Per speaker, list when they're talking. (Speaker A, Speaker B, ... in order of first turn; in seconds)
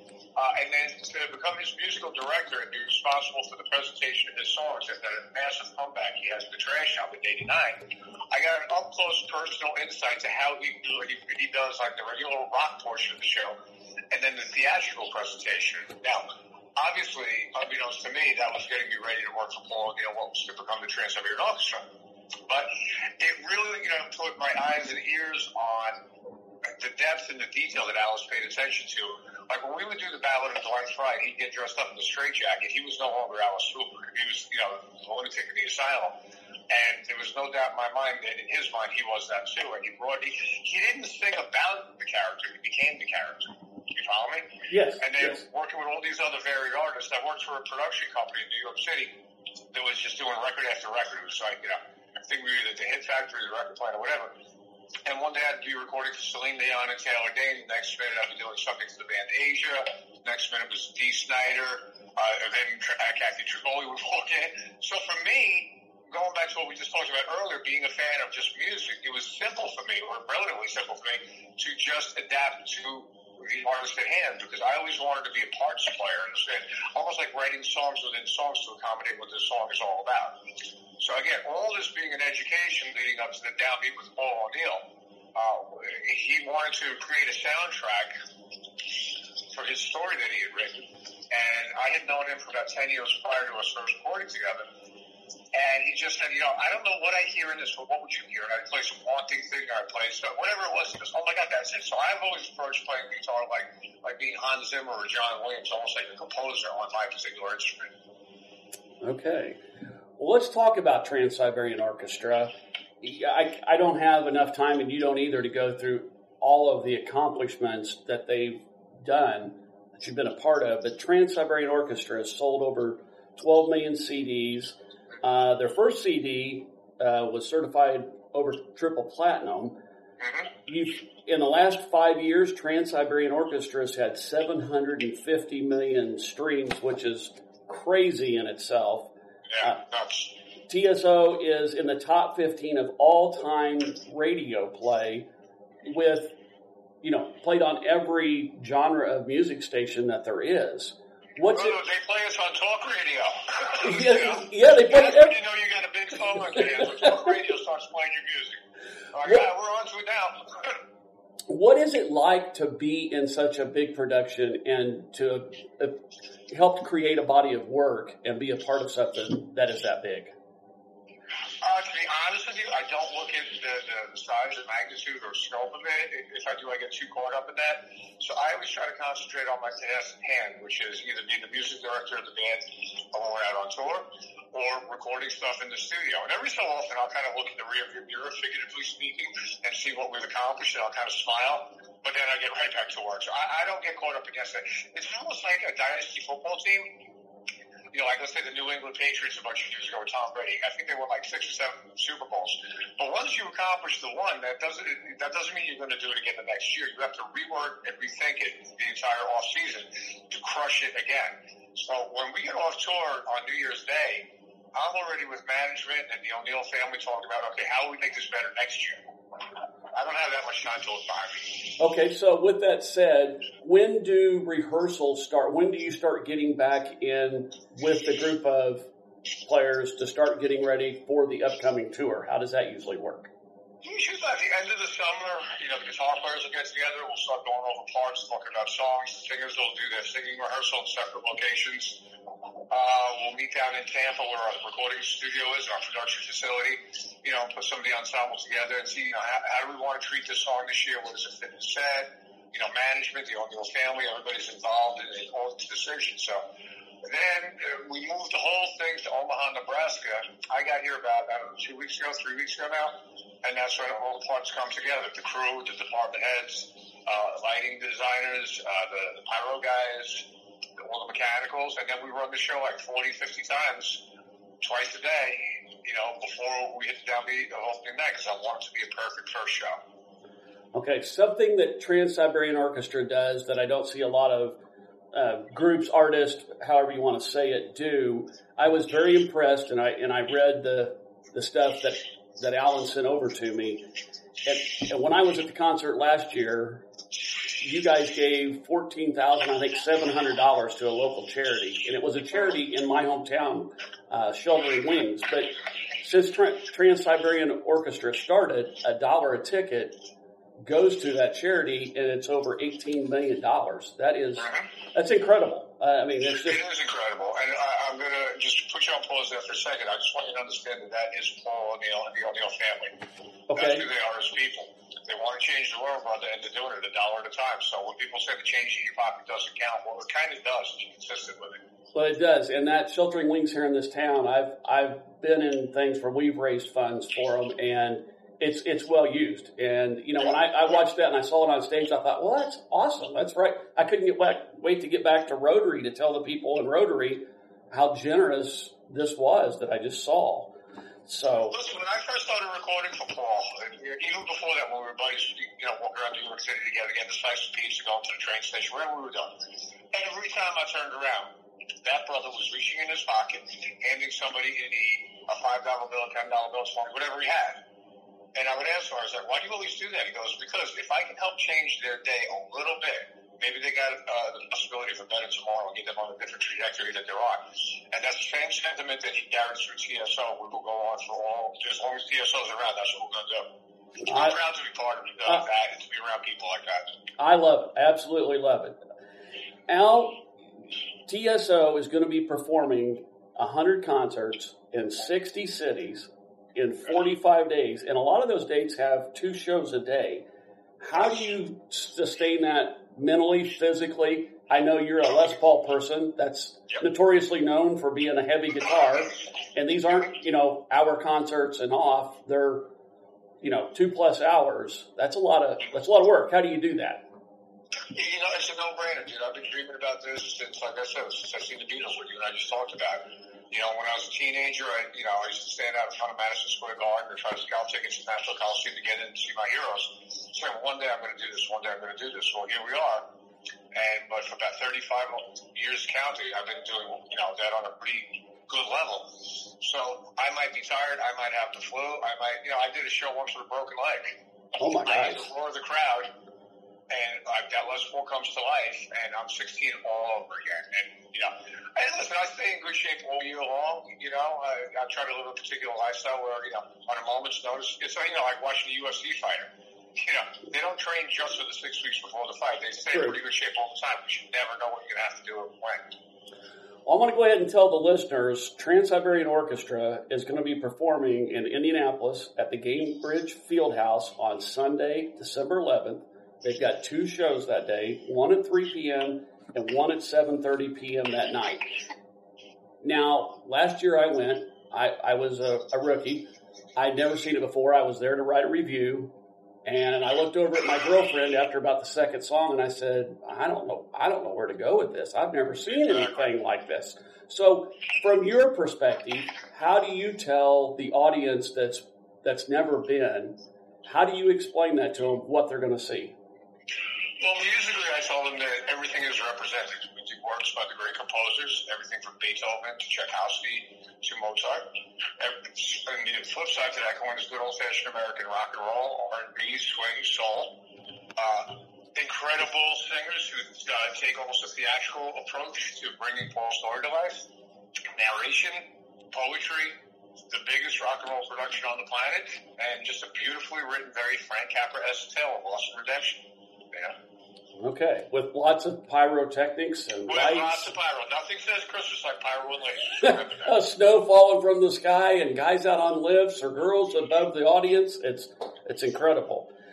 Speaker A: 0.3-13.6, 14.1-16.2, 16.8-21.9, 22.5-26.0, 26.6-36.1, 36.7-49.1, 49.7-54.3, 55.0-80.4, 81.0-88.1, 88.9-94.7, 95.5-107.9, 130.2-130.5, 139.5-140.3, 151.4-158.6, 159.1-160.8, 171.6-197.0, 197.9-219.0, 219.9-221.7, 233.8-242.0, 242.7-256.4, 257.0-274.1, 274.6-279.8, 314.4-314.7, 316.4-323.0, 323.5-331.6, 351.5-359.3, 359.9-367.6, 368.3-383.5, 384.1-386.9, 417.9-433.1, 433.7-444.2, 444.8-446.1, 446.9-465.9, 507.2-520.6, 521.1-527.3, 527.9-536.9, 540.1-543.5
Speaker B: 44.7-45.4, 109.0-109.6, 110.2-129.7, 130.7-139.1, 140.7-145.3, 145.8-146.3, 147.0-151.8, 153.8-155.3, 161.5-166.0, 166.5-170.3, 221.8-228.8, 229.4-233.3, 280.7-284.6, 285.1-293.8, 294.4-296.8, 297.5-310.0, 310.6-316.6, 323.5-323.8, 331.9-350.5, 351.1-351.6, 384.0-384.3, 387.2-388.8, 389.7-390.2, 391.1-400.2, 400.8-412.6, 413.4-417.0, 444.6-445.3, 466.9-481.7, 482.8-489.1, 489.6-506.1, 537.6-540.7, 543.0-549.5